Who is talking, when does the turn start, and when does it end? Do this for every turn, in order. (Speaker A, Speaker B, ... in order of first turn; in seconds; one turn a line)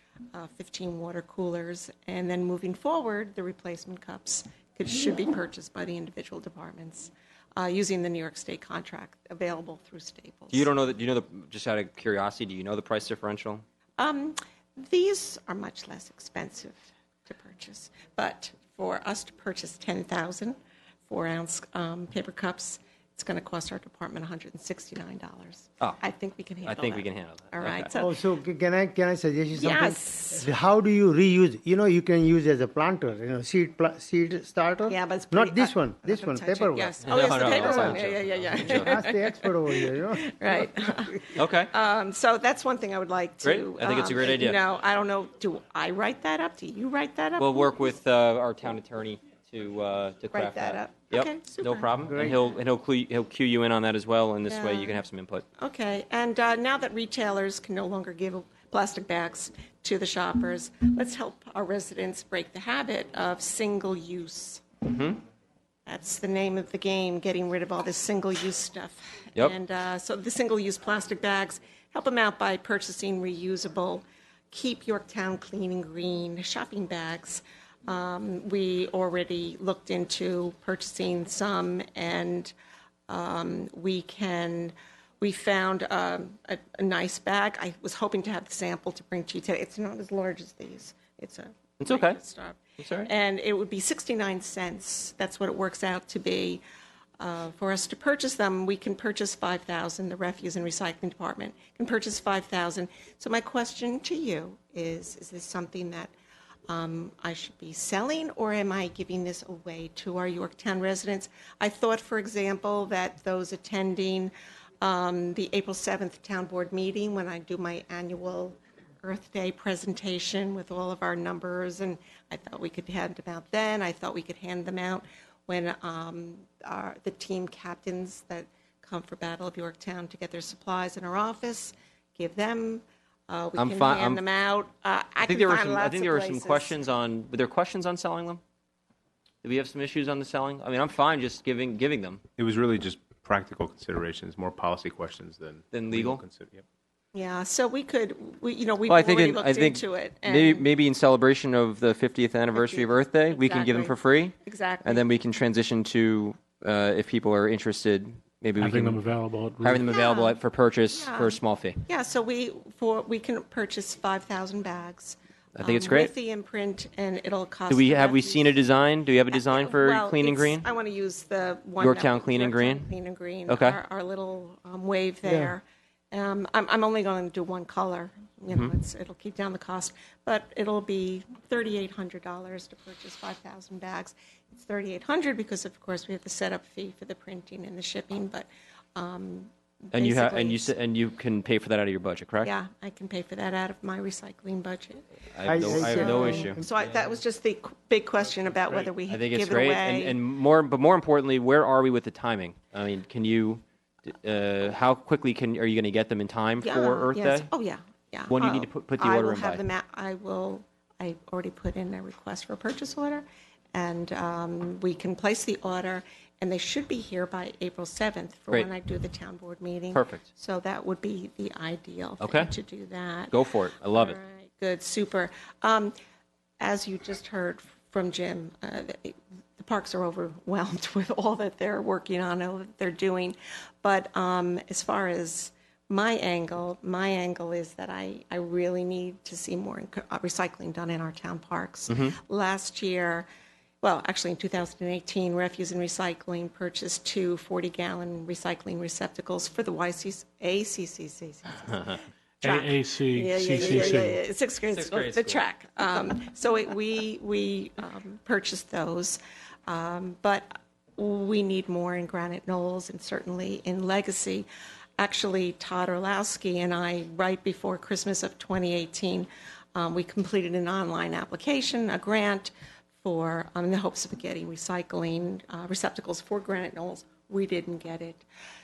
Speaker A: 0.3-10.7
Speaker B: 10.5-13.6
Speaker A: 14.0-28.2
Speaker B: 26.6-27.9
Speaker C: 27.9-38.1
Speaker A: 29.6-30.5
Speaker A: 34.9-47.7
Speaker B: 37.0-39.0
Speaker C: 38.6-40.8
Speaker B: 41.4-41.7
Speaker B: 43.4-44.6
Speaker B: 47.4-55.5
Speaker A: 50.3-51.9
Speaker C: 52.1-52.4
Speaker A: 54.5-55.0
Speaker A: 55.6-64.7
Speaker B: 64.8-65.2
Speaker A: 65.9-82.5
Speaker A: 83.1-96.6
Speaker B: 91.8-92.2
Speaker B: 92.8-93.1
Speaker A: 97.2-106.1
Speaker A: 106.7-136.8
Speaker B: 133.6-134.2
Speaker B: 135.2-138.4
Speaker B: 139.4-142.2
Speaker D: 142.4-146.6
Speaker B: 145.7-146.2
Speaker A: 147.1-150.7
Speaker B: 148.9-159.0
Speaker A: 152.6-155.1
Speaker E: 158.6-159.9
Speaker B: 159.6-161.8
Speaker A: 159.8-160.4
Speaker A: 160.9-168.6
Speaker B: 165.6-166.1
Speaker B: 167.7-170.7
Speaker A: 169.3-190.7
Speaker B: 171.8-172.9
Speaker B: 173.5-173.8
Speaker C: 175.3-175.5
Speaker B: 189.9-192.5
Speaker A: 192.4-195.1
Speaker B: 195.3-196.7
Speaker C: 195.4-196.7
Speaker A: 195.7-200.2
Speaker B: 199.1-207.5
Speaker A: 206.6-225.9
Speaker B: 208.3-209.6
Speaker B: 219.9-220.3
Speaker B: 222.2-222.5
Speaker B: 223.3-224.2
Speaker A: 226.6-243.3
Speaker B: 241.9-242.2
Speaker A: 243.8-264.5
Speaker E: 252.4-254.2
Speaker B: 254.7-255.4
Speaker A: 265.0-272.5
Speaker A: 273.0-278.2